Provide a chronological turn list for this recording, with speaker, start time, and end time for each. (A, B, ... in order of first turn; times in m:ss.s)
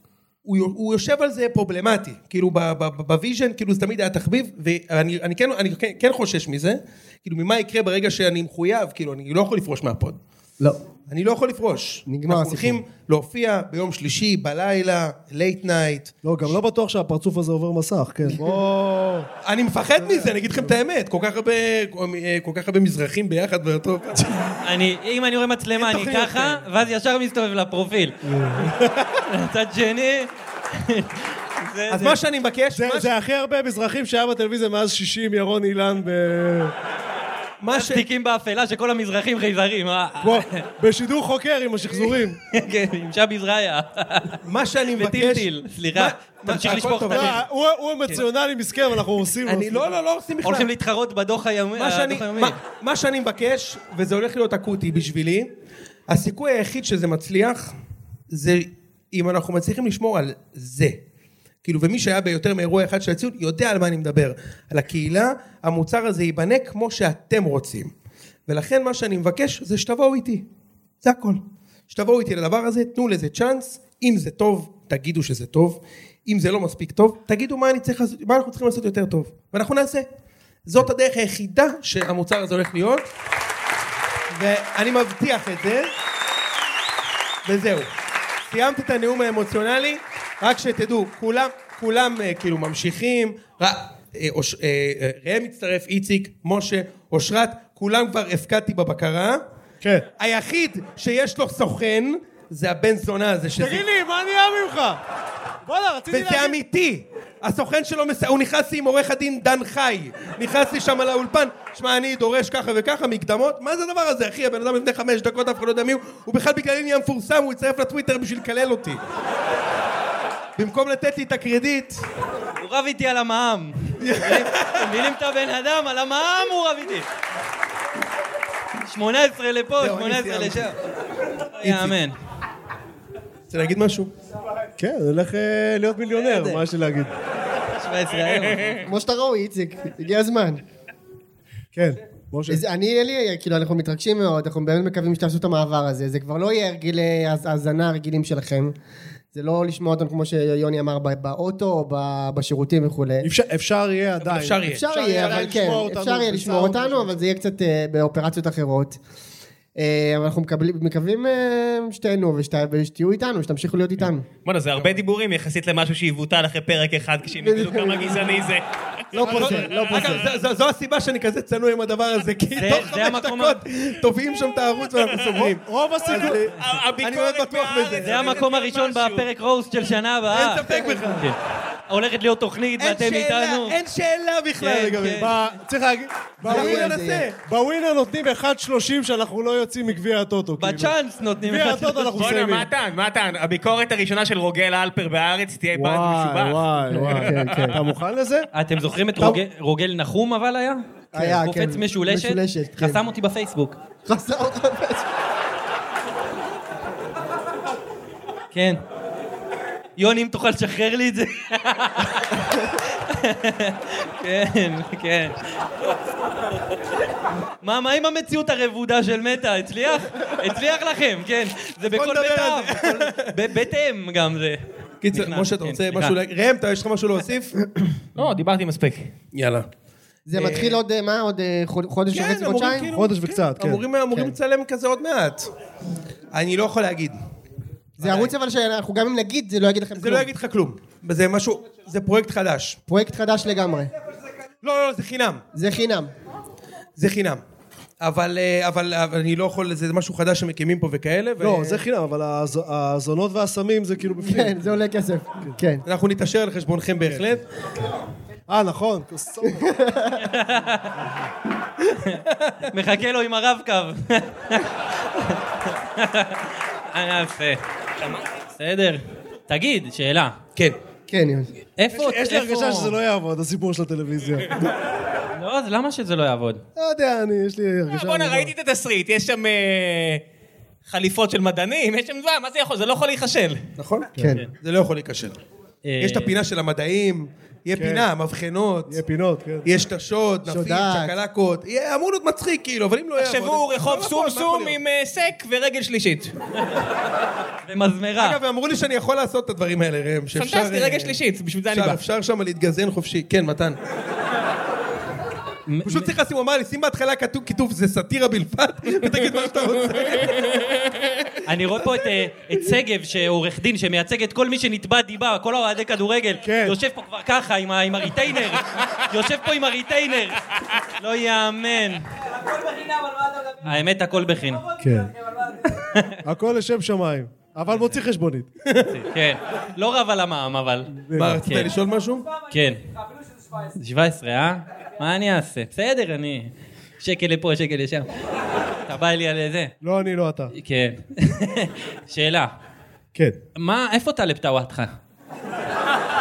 0:00.4-0:10.2 A
0:11.1-0:16.1 A
0:12.1-0:12.8 B
0:16.2-0:19.3 C
0:19.4-0:24.5 A
0:20.0-0:20.7 C
0:24.6-0:28.2 D
0:25.8-0:26.6 A
0:28.2-0:28.9 C
0:29.3-0:32.2 D
0:31.9-0:33.1 A
0:32.7-0:36.7 C
0:37.6-0:38.0 A
0:37.7-0:40.6 D
0:40.2-0:42.4 C
0:42.5-0:44.4 D
0:44.4-0:47.4 A
0:45.0-0:47.4 D
0:47.1-0:50.0 C
0:49.4-0:50.7 A
0:50.4-0:52.6 D
0:51.8-0:55.5 A
0:56.1-0:57.7 A
0:58.3-1:01.0 A
1:01.6-1:07.9 A
1:08.5-1:10.4 A
1:11.0-1:20.1 A
1:20.7-1:23.1 A
1:24.3-1:25.9 A
1:27.5-1:27.9 A
1:28.5-1:39.4 A
1:39.8-1:40.1 C
1:40.2-1:43.8 A
1:43.6-1:45.0 C
1:45.7-1:46.6 C
1:46.1-1:59.0 A
2:00.6-2:02.0 A
2:02.6-2:07.1 D
2:04.0-2:04.8 A
2:08.9-2:10.8 D
2:09.8-2:10.7 A
2:11.6-2:12.2 D
2:11.6-2:12.0 A
2:13.5-2:14.1 A
2:14.8-2:17.1 C
2:16.3-2:16.6 D
2:17.8-2:18.8 D
2:18.8-2:20.6 B
2:21.7-2:22.6 C
2:22.5-2:28.7 B
2:29.3-2:33.3 B
2:33.2-2:37.2 C
2:34.2-2:35.8 A
2:34.7-2:39.0 B
2:39.8-2:44.2 B
2:44.5-2:48.6 E
2:47.4-2:48.4 B
2:49.1-2:50.2 B
2:49.2-2:49.9 C
2:49.2-2:56.4 A
2:49.4-2:49.9 E
2:52.6-2:53.6 D
2:55.4-2:56.6 C
2:56.1-2:59.3 E
2:57.0-2:58.5 A
2:58.0-3:01.4 D
3:00.3-3:01.3 A
3:00.7-3:01.2 B
3:01.9-3:03.8 D
3:02.8-3:05.3 A
3:04.6-3:05.6 D
3:05.1-3:12.7 C
3:06.4-3:07.4 A
3:06.4-3:07.3 B
3:10.6-3:12.3 D
3:12.2-3:16.7 E
3:15.7-3:18.5 C
3:16.9-3:17.8 B
3:18.5-3:23.8 D
3:21.1-3:23.0 B
3:24.1-3:25.0 B
3:28.5-3:28.8 D
3:30.0-3:32.4 D
3:33.1-3:35.4 D
3:37.6-3:44.6 D
3:41.8-3:43.3 A
3:45.0-3:47.5 A
3:45.1-3:46.2 D
3:48.2-3:49.1 E
3:49.3-3:49.7 A
3:50.3-3:52.9 B
3:50.3-3:50.8 A
3:52.1-3:55.5 A
3:52.9-3:53.8 C
3:56.3-3:57.2 A
3:58.0-3:58.3 A
3:58.0-4:00.3 B
4:00.0-4:02.8 A
4:02.9-4:03.9 B
4:04.6-4:05.4 A
4:05.5-4:06.1 B
4:07.0-4:07.4 A
4:08.0-4:11.8 A
4:11.4-4:14.8 C
4:14.2-4:15.8 B
4:15.9-4:17.4 A
4:18.5-4:19.7 C
4:19.4-4:20.2 B
4:20.2-4:20.9 D
4:22.7-4:24.7 D
4:26.0-4:26.4 D
4:26.9-4:30.4 D
4:31.1-4:31.5 B
4:31.8-4:33.0 D
4:31.9-4:34.6 C
4:35.4-4:36.6 D
4:36.8-4:38.5 C
4:37.9-4:40.2 E
4:40.9-4:43.6 E
4:43.8-4:45.4 A
4:44.2-4:44.4 C
4:45.8-4:46.4 D
4:46.0-4:49.0 A
4:47.8-4:48.1 C
4:48.9-4:49.7 C
4:49.6-4:54.8 A
4:50.5-4:51.2 B
4:53.2-4:56.3 E
4:57.7-4:58.4 D
4:58.2-5:01.2 A
5:00.3-5:02.0 E
5:01.7-5:03.8 A
5:05.7-5:06.1 D
5:05.8-5:10.4 A
5:11.5-5:20.4 D
5:16.4-5:16.8 C
5:21.0-5:22.1 D
5:23.6-5:24.6 D
5:24.8-5:25.1 C
5:26.2-5:28.5 C
5:27.7-5:28.0 D
5:28.9-5:31.7 D
5:30.9-5:31.5 C
5:31.1-5:32.3 A
5:32.4-5:32.8 D
5:33.8-5:38.1 D
5:38.9-5:39.7 D
5:39.8-5:40.5 C
5:40.6-5:42.6 D
5:43.6-5:45.0 D